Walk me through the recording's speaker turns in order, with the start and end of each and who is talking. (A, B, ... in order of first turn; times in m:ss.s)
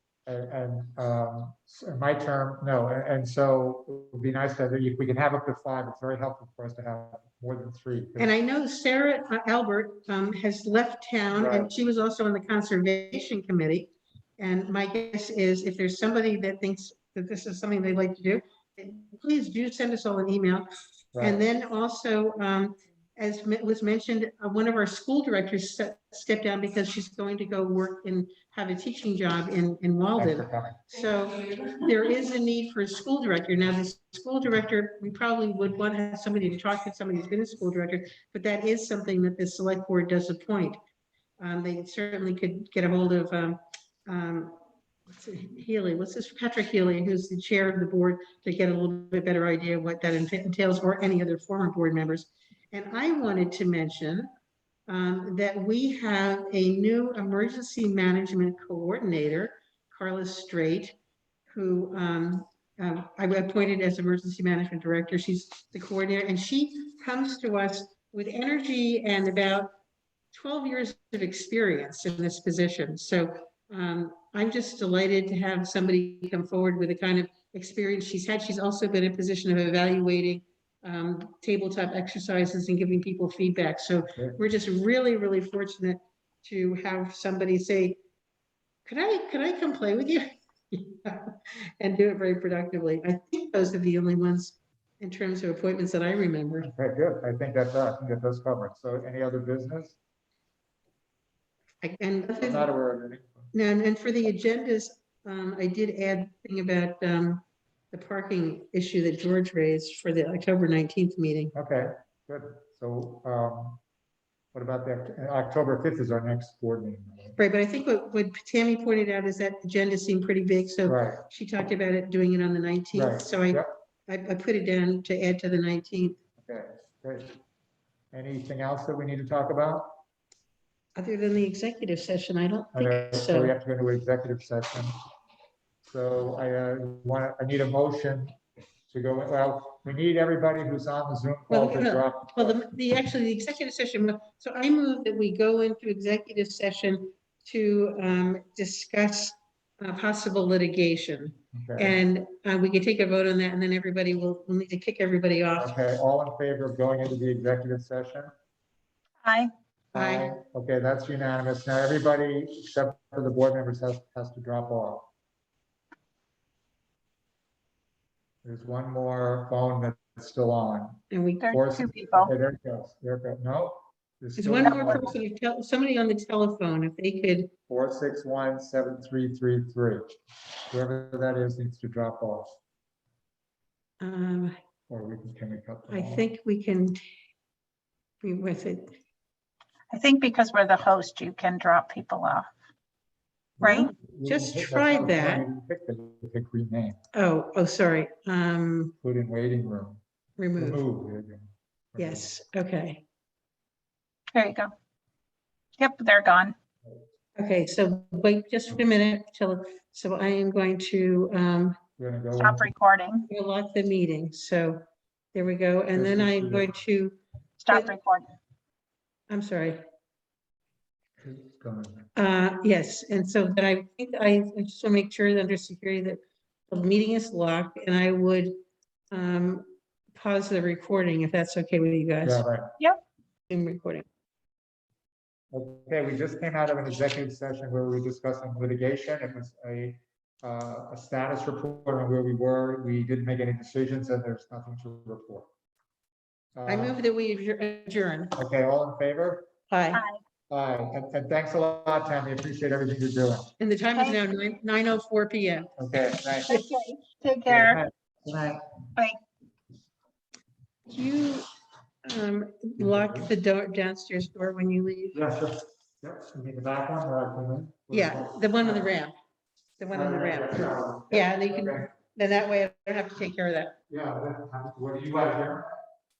0:00.3-0:08.3 A
0:08.2-0:40.8 B
0:11.3-0:11.7 A
0:21.1-0:21.4 A
0:30.2-0:30.9 A
0:41.4-0:44.6 B
0:45.1-0:54.3 B
0:54.9-1:01.0 B
1:01.5-1:09.7 B
1:10.3-1:28.0 B
1:28.8-1:36.7 B
1:36.6-1:40.0 A
1:41.8-1:42.7 B
1:42.4-1:43.5 A
1:43.5-1:51.5 B
1:51.5-1:53.8 A
1:54.5-1:57.4 A
1:57.4-2:06.2 B
2:00.9-2:01.2 A
2:02.9-2:03.7 A
2:06.4-2:07.4 A
2:08.1-2:10.0 A
2:11.0-2:13.5 B
2:12.8-2:15.0 A
2:15.8-2:18.3 A
2:18.9-2:22.6 A
2:21.5-2:35.7 B
2:31.5-2:32.0 A
2:35.6-2:38.3 A
2:39.2-2:39.5 C
2:39.9-2:45.1 A
2:40.0-2:40.4 B
2:48.4-2:55.1 A
2:51.1-2:51.6 B
2:51.4-2:52.3 C
2:54.4-2:57.5 B
2:57.7-3:00.1 A
3:00.7-3:02.6 A
3:04.0-3:04.6 B
3:04.9-3:06.3 A
3:05.9-3:07.0 B
3:08.2-3:09.0 B
3:09.9-3:12.5 C
3:13.6-3:17.0 A
3:13.6-3:13.9 C
3:13.6-3:15.4 B
3:17.1-3:18.9 B
3:19.0-3:20.0 A
3:20.4-3:20.8 B
3:20.6-3:22.3 A
3:22.0-3:23.0 B
3:24.3-3:24.7 C
3:25.8-3:26.6 C
3:27.4-3:31.8 B
3:32.0-3:32.7 A
3:32.4-3:33.3 C
3:33.3-3:34.8 B
3:35.3-3:37.2 B
3:35.9-3:36.8 A
3:37.6-3:38.3 C
3:37.7-3:38.0 B
3:39.3-3:39.8 B
3:41.2-3:42.1 A
3:42.2-3:48.6 B
3:49.1-3:52.5 B
3:52.2-3:52.7 A
3:53.5-3:54.1 B
3:55.5-4:05.5 A
4:06.6-4:07.0 A
4:06.7-4:08.4 B
4:08.4-4:09.5 A
4:09.7-4:10.0 B
4:09.9-4:10.2 C
4:10.5-4:13.5 A
4:13.6-4:15.7 B
4:13.9-4:14.2 C
4:15.8-4:16.6 A
4:16.5-4:17.8 C
4:17.5-4:18.6 A
4:20.9-4:21.5 B
4:22.0-4:25.2 B
4:22.8-4:23.3 A
4:25.1-4:28.9 A
4:27.9-4:29.2 B
4:29.8-4:33.8 B
4:29.9-4:31.9 A
4:33.9-4:35.8 A